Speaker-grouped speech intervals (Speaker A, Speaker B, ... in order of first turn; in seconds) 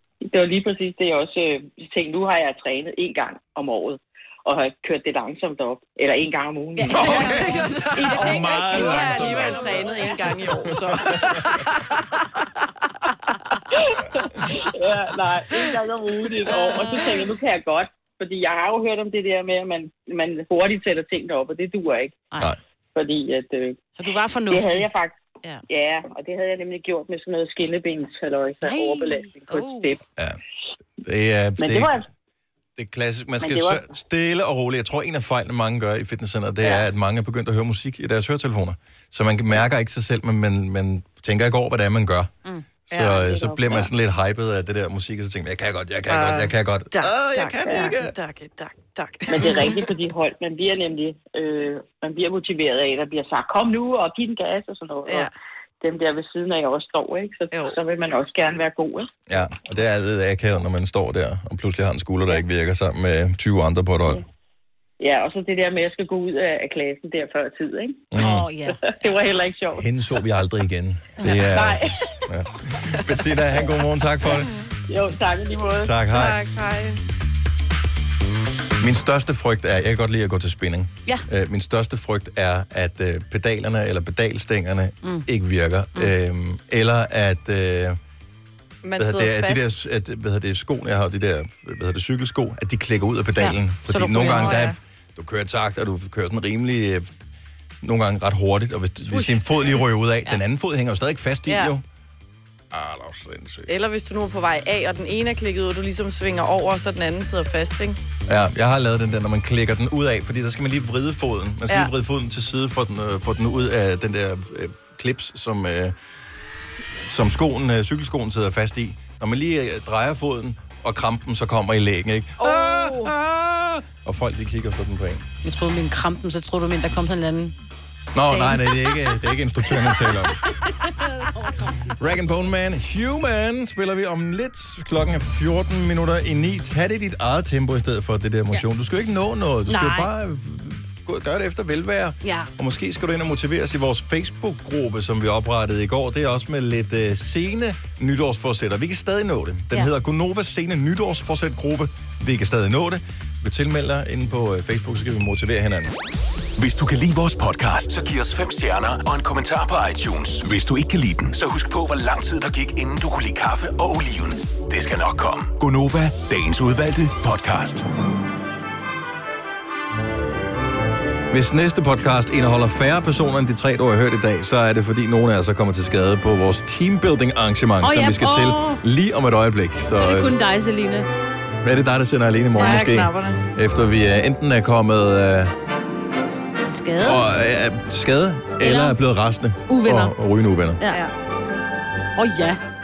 Speaker A: 0.2-7.3, 8.0-8.6, 13.9-22.3, 22.9-23.8, 24.5-30.0, 31.6-32.0, 33.4-33.8, 36.6-36.9, 43.2-43.9, 47.6-47.9, 49.3-59.1, 65.0-68.1, 68.7-69.8, 71.4-72.1, 74.9-75.9
Speaker B: 6.8-10.4, 16.4-17.3, 23.9-24.9, 28.6-29.9, 68.2-69.1, 71.2-71.5, 93.4-94.7, 125.4-127.5, 128.3-129.2, 130.6-131.8, 139.7-140.1, 142.2-142.5, 177.8-178.8, 179.9-181.1, 186.6-187.2, 188.6-189.0, 189.7-190.1, 192.2-192.6
Speaker C: 6.9-7.6, 8.1-9.8, 10.4-10.8, 31.0-32.0, 32.8-42.3, 42.9-48.1, 59.3-64.2, 68.1-68.5, 69.7-74.5, 75.8-76.4, 78.8-88.0, 89.0-97.1, 97.8-101.8, 102.7-103.7, 108.3-115.9, 117.0-125.2, 128.1-130.4, 132.0-155.9, 171.3-180.3, 181.6-185.5, 187.0-190.8
Speaker D: 7.1-12.0, 42.9-43.3, 46.1-49.8, 55.0-55.3, 57.5-57.8, 76.1-77.0, 88.8-89.8, 94.1-94.7, 99.1-99.4, 101.5-101.7, 103.7-108.0, 122.4-123.1, 182.6-183.4
Speaker E: 156.6-167.8